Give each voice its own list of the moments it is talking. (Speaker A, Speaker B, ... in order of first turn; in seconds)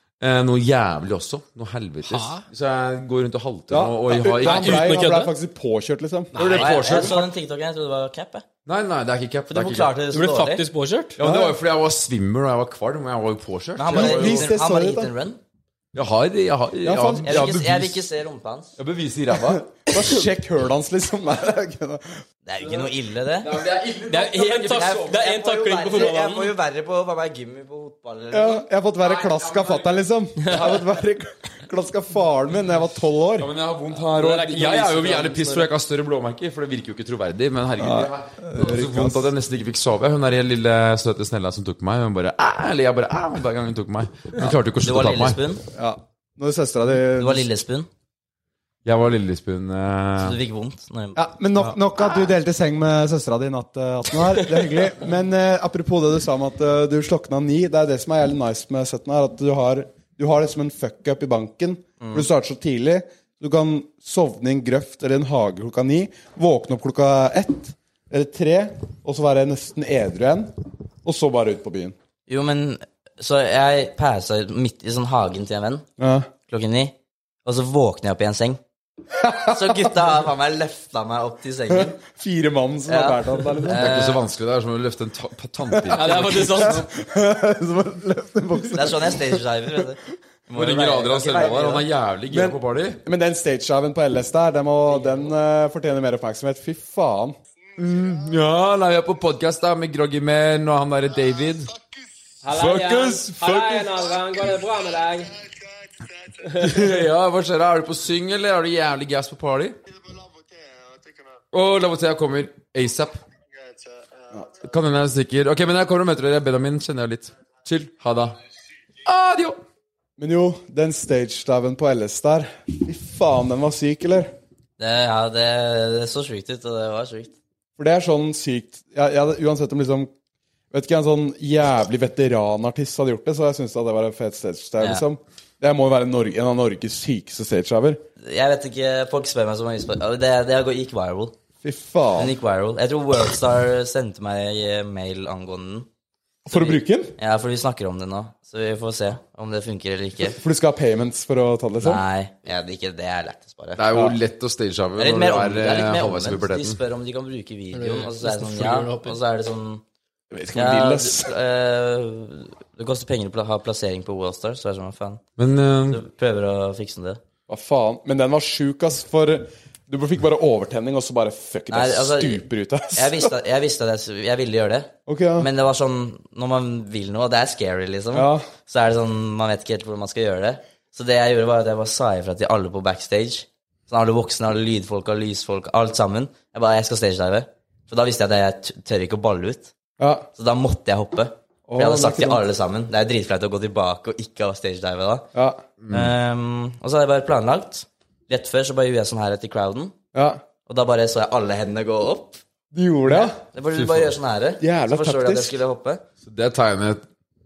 Speaker A: 0.2-5.0, 6.4-7.3, 8.7-9.9, 11.2-14.5, 15.9-18.0, 18.8-19.8, 23.4-25.2, 29.0-30.1, 33.4-45.4, 48.9-50.4, 83.7-86.8, 90.5-93.0, 97.8-101.8, 102.5-104.1, 106.5-109.8, 111.5-113.2, 114.6-118.4, 119.0-119.6, 153.8-156.8, 165.4-166.0, 195.8-196.1, 203.7-204.2, 206.2-207.0
Speaker B: 2.1-2.4, 4.4-5.3, 6.3-7.2, 10.1-11.2, 24.1-26.5, 30.4-30.7, 34.1-35.7, 85.9-86.8, 102.4-105.4, 106.4-106.9, 157.7-159.2
Speaker C: 3.7-6.3, 11.2-11.6, 13.9-15.1, 16.8-17.4, 19.5-22.1, 28.3-33.5, 37.8-39.3, 45.7-47.5, 51.1-71.9, 76.0-76.3, 79.2-80.0, 81.7-83.9, 85.7-89.4, 92.3-97.4, 120.2-124.3, 127.8-130.1, 130.7-138.0, 141.6-142.3, 146.5-147.1, 150.3-152.0, 160.3-161.3, 167.5-173.3, 175.1-175.5, 178.1-178.5, 190.0-190.3, 191.7-192.4, 195.3-195.6, 200.1-200.4, 202.7-203.4, 204.6-205.6
Speaker D: 6.5-8.4, 9.5-10.7, 13.8-15.4, 17.2-18.7, 22.5-23.5, 24.7-28.7, 44.8-45.6, 47.2-47.9, 50.2-51.2, 62.0-62.3, 72.3-75.8, 76.5-78.6, 79.5-82.0, 82.9-84.2, 88.7-91.9, 124.8-127.3, 138.2-141.3, 142.2-145.9, 146.5-150.4, 151.8-153.8, 155.0-159.8, 160.5-165.2, 165.9-167.2, 171.7-172.4, 172.9-189.7, 190.4-195.3, 195.9-199.9, 200.7-202.4, 203.1-206.0